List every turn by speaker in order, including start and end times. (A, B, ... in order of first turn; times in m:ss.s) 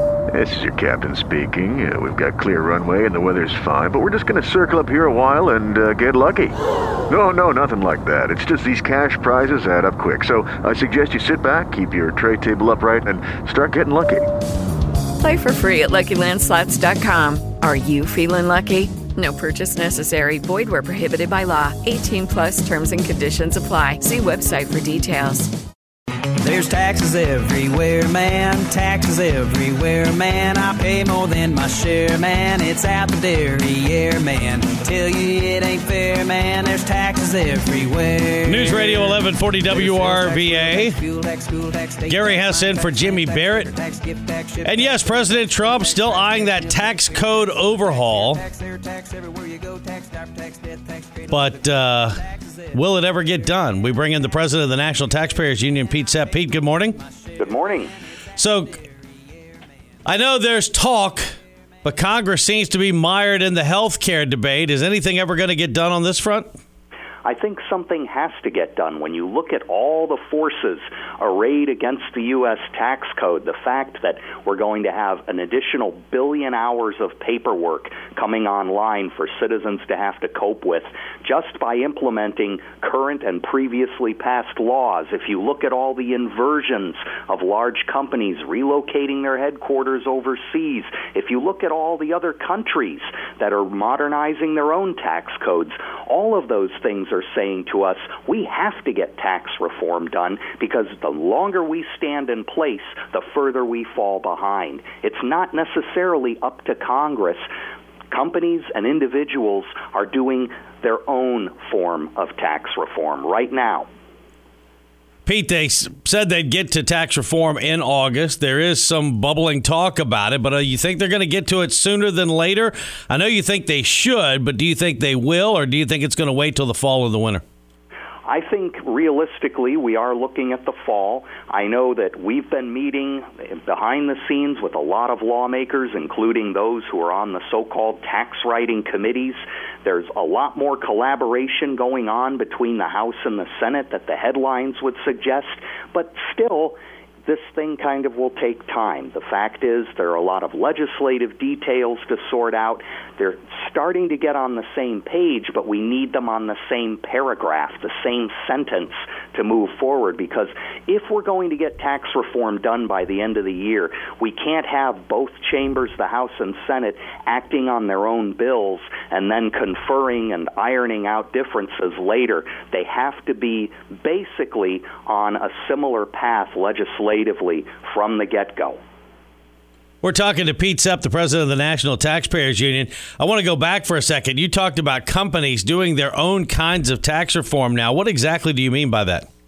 0:00.3-0:06.6 A
0:07.1-0:14.3 A
0:15.2-0:25.5 B
0:26.4-0:52.8 C
0:38.5-0:41.0 D
0:42.1-0:43.8 D
0:44.6-0:48.4 D
0:51.3-0:57.0 D
0:56.1-0:56.3 C
0:57.0-0:57.5 C
0:57.4-0:57.9 E
0:58.4-0:58.8 D
1:00.0-1:01.3 D
1:01.8-1:06.5 D
1:07.2-1:47.5 E
1:48.1-1:53.9 E
1:55.2-2:07.4 D
2:08.3-2:58.8 E
3:00.0-3:09.3 D